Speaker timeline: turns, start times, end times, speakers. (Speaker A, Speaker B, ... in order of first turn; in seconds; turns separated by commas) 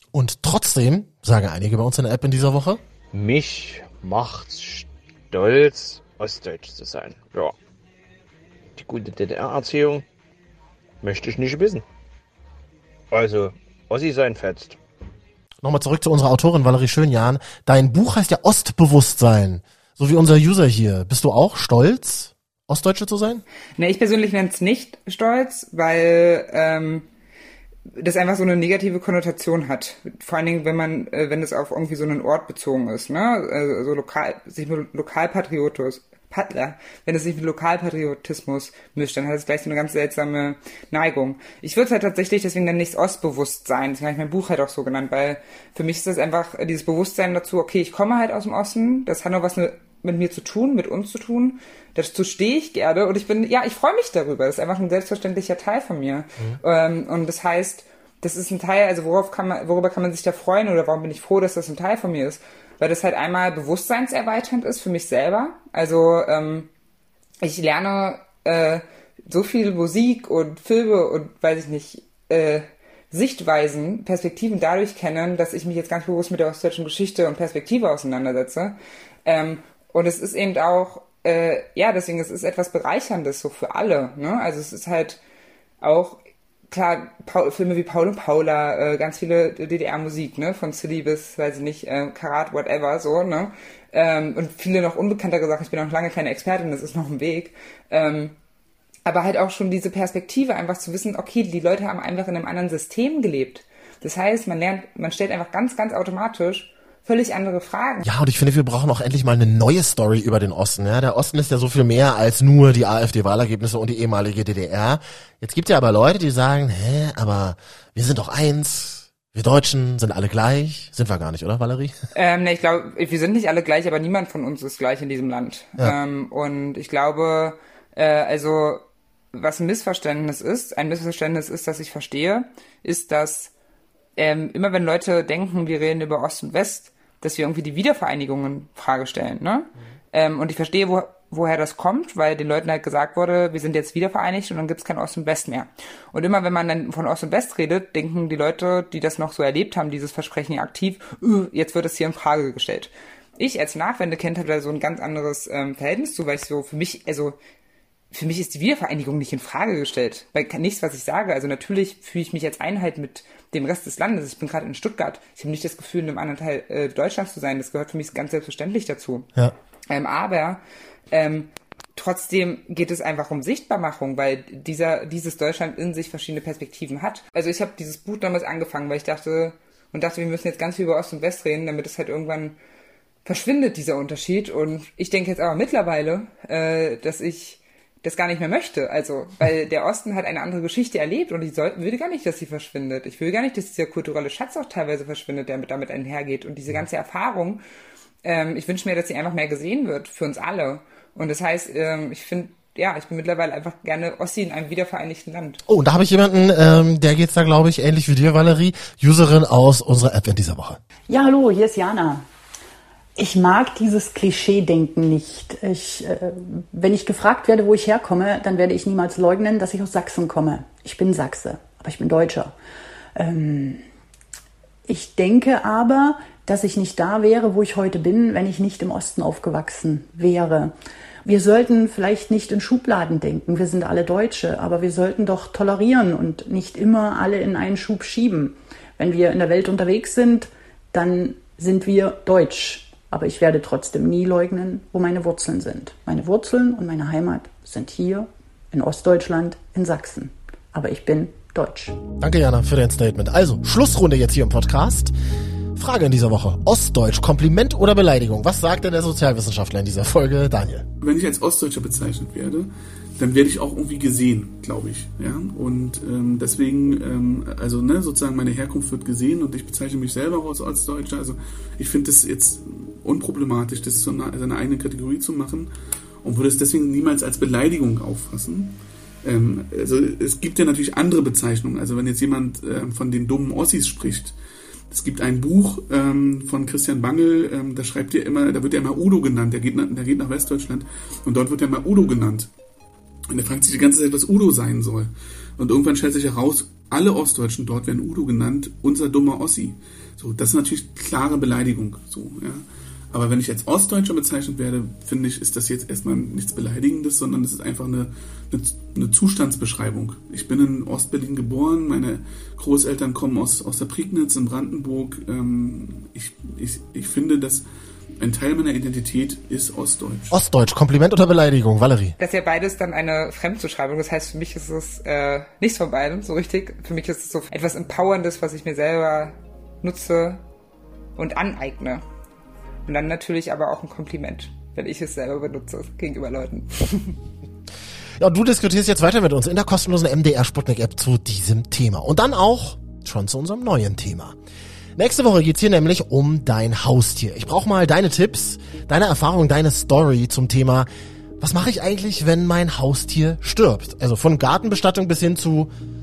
Speaker A: 0.1-2.8, Speaker B: 3.1-7.5, Speaker B: 8.8-10.0, Speaker B: 11.0-11.8, Speaker B: 13.1-14.8, Speaker A: 15.6-23.4, Speaker C: 23.8-27.1, Speaker C: 27.9-66.7, Speaker C: 67.4-85.2, Speaker C: 85.8-98.3, Speaker C: 99.0-108.0, Speaker A: 108.0-121.9, Speaker C: 122.1-133.5, Speaker C: 134.2-157.4, Speaker C: 158.1-169.3, Speaker C: 169.9-182.6, Speaker C: 183.2-197.6, Speaker C: 198.2-205.6, Speaker A: 205.7-210.8, Speaker D: 211.1-212.2, Speaker D: 213.2-222.5, Speaker D: 223.2-223.8, Speaker D: 224.9-230.7, Speaker D: 231.2-252.0, Speaker A: 252.2-255.1, Speaker A: 255.8-260.9, Speaker E: 261.0-275.7, Speaker E: 276.2-284.4, Speaker E: 284.9-292.5, Speaker E: 293.3-317.6, Speaker E: 318.2-320.4, Speaker A: 320.3-322.1, Speaker C: 322.2-330.4, Speaker C: 331.1-332.0, Speaker C: 332.9-337.2, Speaker A: 338.2-344.4, Speaker A: 344.9-350.9, Speaker A: 351.4-355.7